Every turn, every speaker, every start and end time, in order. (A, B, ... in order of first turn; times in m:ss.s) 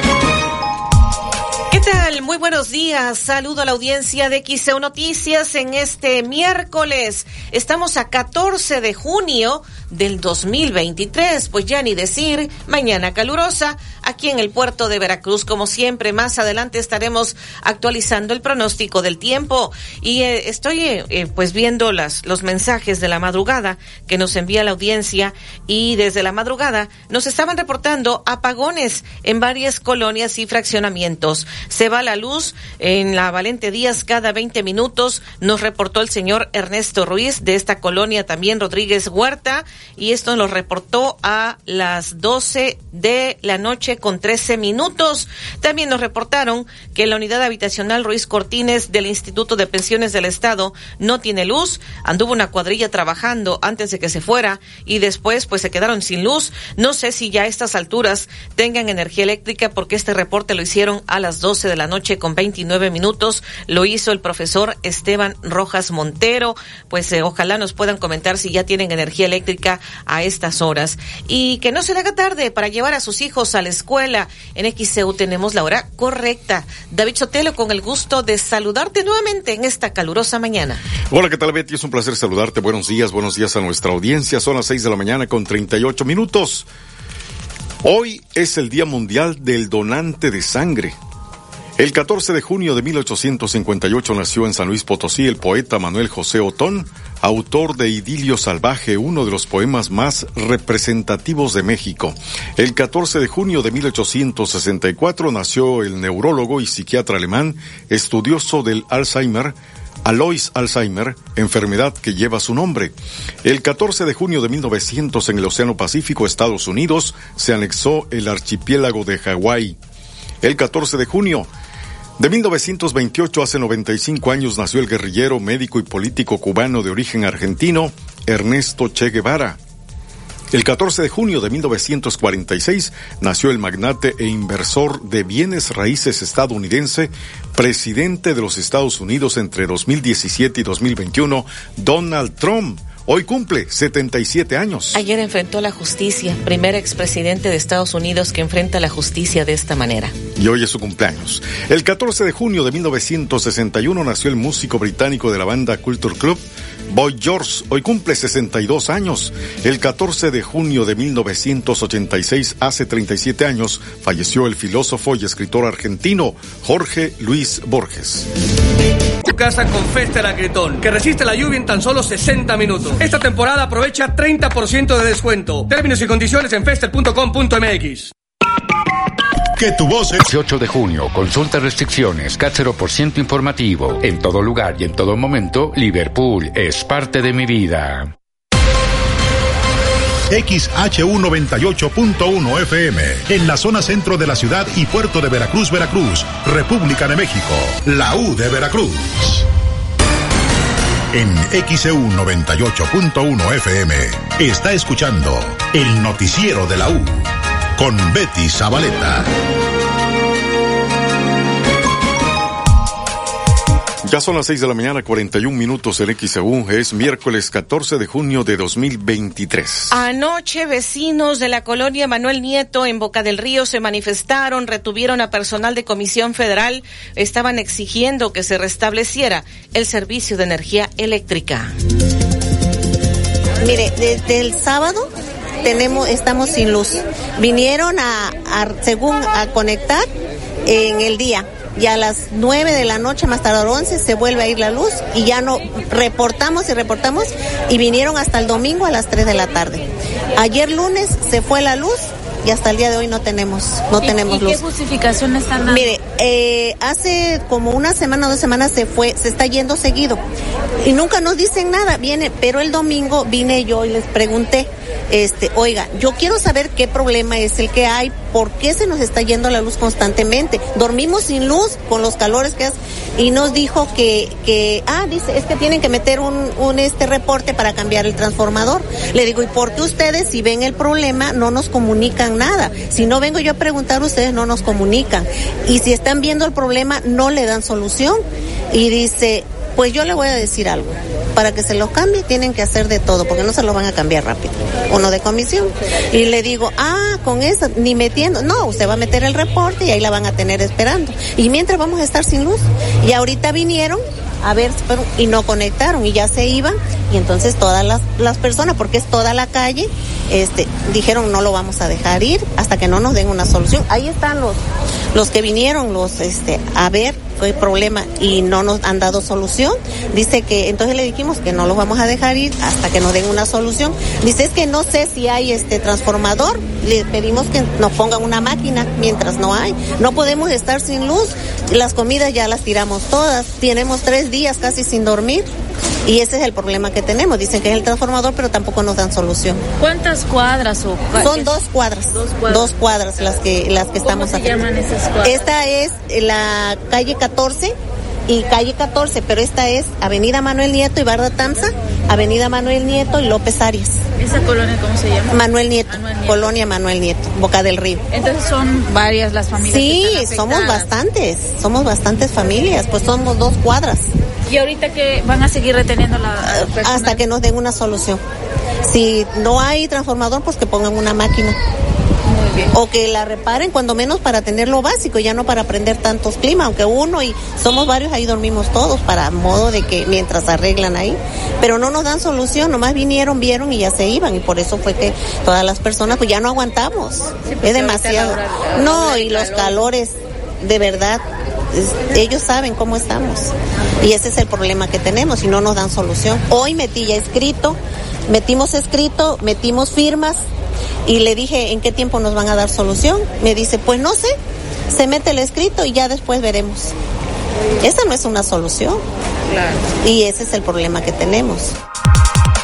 0:01.7-1:20.8 A
1:21.1-1:26.7 B
1:27.8-1:31.0 B
1:31.8-1:59.8 B
2:00.4-2:01.5 B
2:02.2-2:09.6 B
2:10.5-2:25.0 B
2:24.9-2:30.1 A
2:30.4-2:48.3 B
2:49.2-2:58.1 C
2:59.6-3:00.2 D
3:00.3-3:08.1 E
3:10.3-3:19.5 D
3:21.1-3:29.3 D
3:34.0-3:39.9 B
3:39.9-3:51.7 A
3:53.6-3:55.1 F
3:55.6-4:00.1 F
4:00.7-4:14.7 F
4:14.0-4:15.9 G
4:15.6-4:20.2 F
4:20.8-5:14.6 F
5:15.1-5:35.5 F
5:36.1-5:39.6 F
5:39.8-5:41.6 G
5:41.2-5:44.7 F
5:42.1-5:42.8 G
5:44.0-5:45.5 G
5:45.2-5:47.8 F
5:48.3-5:54.0 F
5:54.2-5:55.4 G
5:55.3-5:58.0 F
5:55.9-5:56.5 G
5:58.1-6:01.0 G
5:59.6-6:04.1 F
6:04.5-6:07.2 G
6:06.4-6:08.2 F
6:08.9-6:11.6 F
6:12.3-6:12.7 G
6:12.7-6:31.2 F
6:27.6-6:29.8 G
6:31.7-6:40.4 F
6:41.1-6:44.4 F
6:44.9-6:46.9 F
6:47.8-6:49.0 F
6:50.0-6:51.7 F